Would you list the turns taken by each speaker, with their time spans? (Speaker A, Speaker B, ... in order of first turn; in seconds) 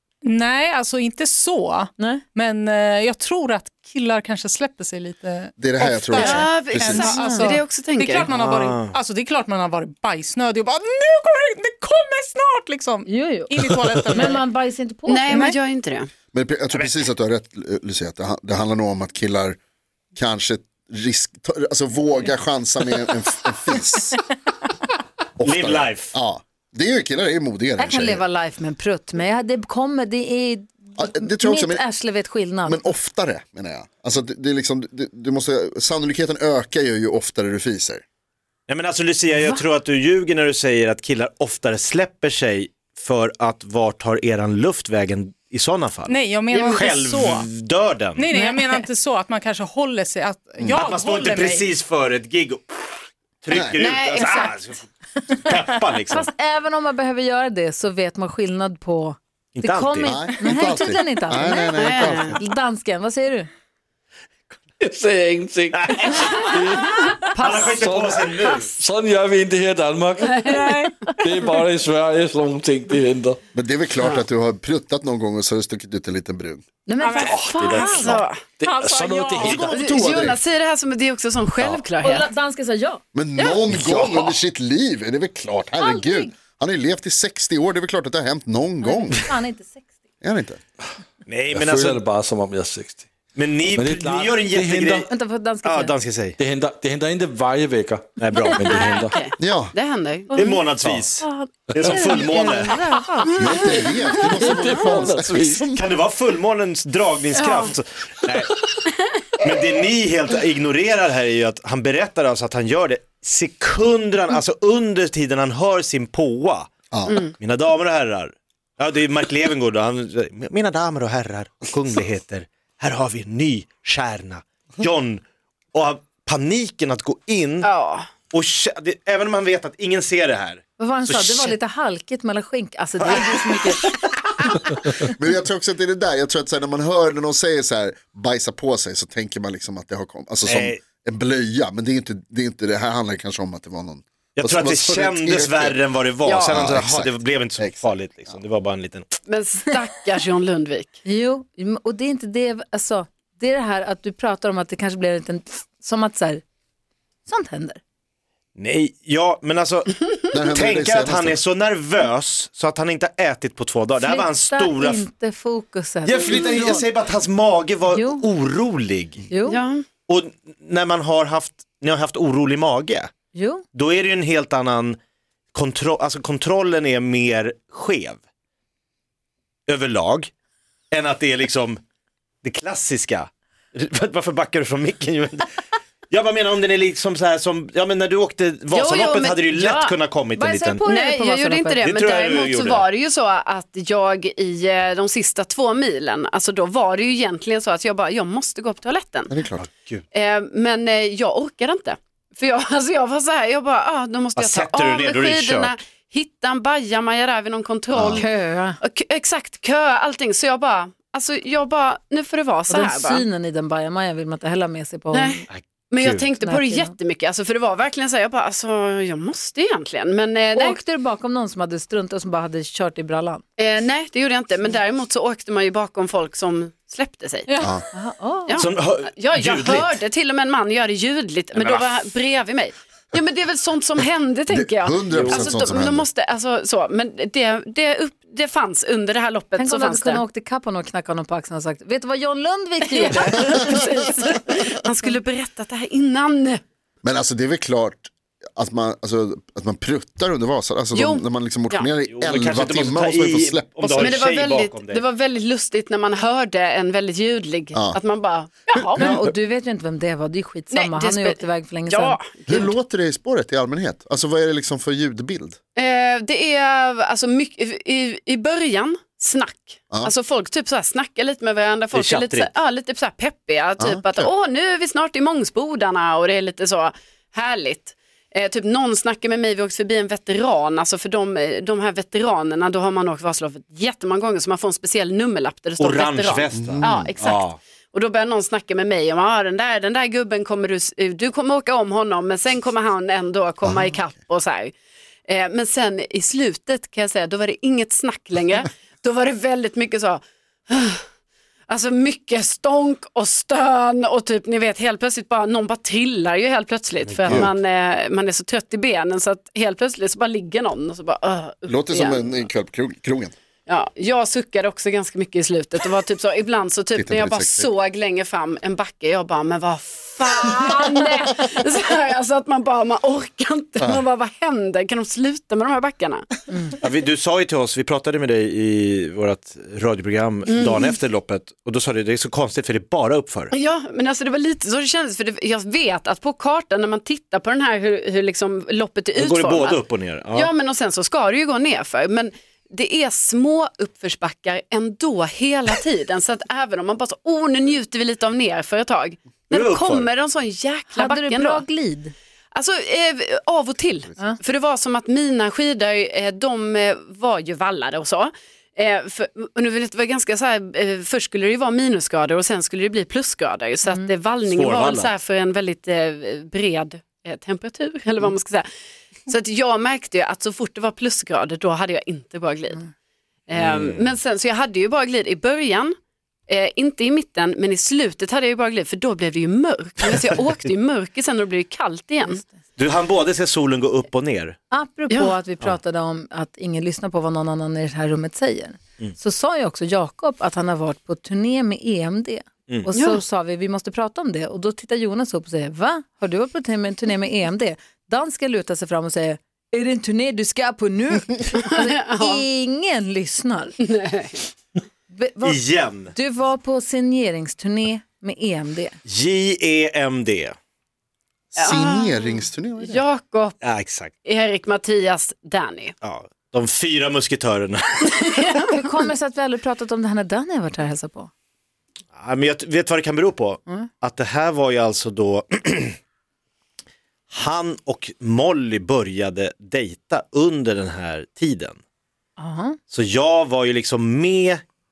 Speaker A: 0.2-14.4, 15.3-15.6, 46.0-47.5, 48.1-51.7, 70.4-70.9, 77.0-77.9, 78.6-79.7
Speaker B: 2.0-2.2, 6.2-7.5, 13.1-15.5, 27.8-32.8, 39.3-39.6, 48.3-48.6, 56.1-63.5, 76.8-78.2, 82.0-83.5, 85.8-86.3, 88.8-89.9, 95.1-95.9, 100.3-100.6, 101.2-103.9, 130.8-135.0, 151.0-156.4, 157.2-157.8, 164.0-166.8, 167.9-168.2, 169.3-169.6, 173.3-173.6, 190.3-191.8, 208.2-208.8, 212.7-215.5, 216.4-216.9, 220.5-223.4, 227.9-228.6, 239.6-243.6, 259.0-262.6, 350.9-352.1, 384.7-403.8, 405.1-408.9, 418.7-421.3, 432.4-432.8
Speaker C: 5.6-7.2, 16.3-19.6, 20.1-24.2, 25.4-28.2, 31.0-31.9, 32.6-38.0, 60.0-62.4, 73.5-76.6, 79.4-80.4, 83.1-89.3, 90.2-90.6, 99.4-99.7, 103.4-105.8, 116.9-117.2, 135.0-145.8, 146.4-148.3, 160.3-161.4, 199.3-199.6, 207.9-208.2, 234.5-236.1, 247.0-254.2, 257.7-258.0, 258.7-259.2, 262.5-265.6, 273.8-274.3, 286.6-287.1, 307.3-307.5, 311.7-313.3, 316.9-317.7, 411.5-413.0
Speaker D: 6.3-8.3, 15.1-16.1, 46.5-46.8, 53.8-54.5, 61.8-62.4, 67.3-68.7, 70.2-70.6, 77.6-78.4, 79.7-82.3, 98.3-100.3, 107.3-107.7, 108.8-109.2, 127.6-128.1, 146.2-146.5, 149.2-151.0, 166.3-166.6, 169.5-169.8, 188.7-189.9, 190.8-199.3, 200.1-208.3, 208.8-213.2, 215.1-220.8, 223.6-227.6, 228.4-240.2, 242.8-246.6, 250.9-251.9, 253.8-259.1, 260.7-262.7, 265.8-294.7, 295.3-301.0, 301.7-312.4, 313.7-326.3, 330.5-330.9, 333.5-351.6, 352.5-368.6, 369.2-372.8, 373.5-375.9, 376.5-382.4, 392.9-393.2, 401.6-402.4, 403.8-404.5, 411.6-413.6, 414.2-415.9, 418.1-418.7
Speaker E: 8.3-9.0, 25.4-26.1, 38.7-48.3, 50.8-56.3, 59.6-60.2, 65.7-66.1, 67.4-68.7, 83.8-84.4, 91.3-92.0, 93.3-95.1, 95.6-96.4, 98.2-98.8, 100.3-102.8, 105.7-108.5, 109.4-116.7, 117.4-127.7, 128.3-131.5, 133.0-133.8, 140.4-140.8, 144.3-149.1, 158.6-165.1, 166.0-169.2, 170.1-173.1, 173.7-175.0, 175.5-178.2, 179.7-180.3, 180.9-181.8, 182.4-185.5, 186.1-190.8, 191.8-192.9, 199.6-200.0, 204.3-205.7, 215.5-216.3, 228.6-230.0, 231.5-232.0, 252.0-255.0, 271.9-272.5, 285.8-287.6, 307.0-307.6, 326.8-333.5, 339.1-340.5, 349.5-350.1, 364.4-365.1, 373.5-374.1, 382.8-384.6, 405.4-406.1, 409.0-410.6, 413.6-414.1, 416.0-418.4, 422.1-425.9, 427.3-431.8, 432.9-434.6
Speaker F: 64.8-73.4, 77.2-79.8, 91.5-93.1, 93.7-95.0, 96.4-99.2, 101.7-102.2, 104.3-105.7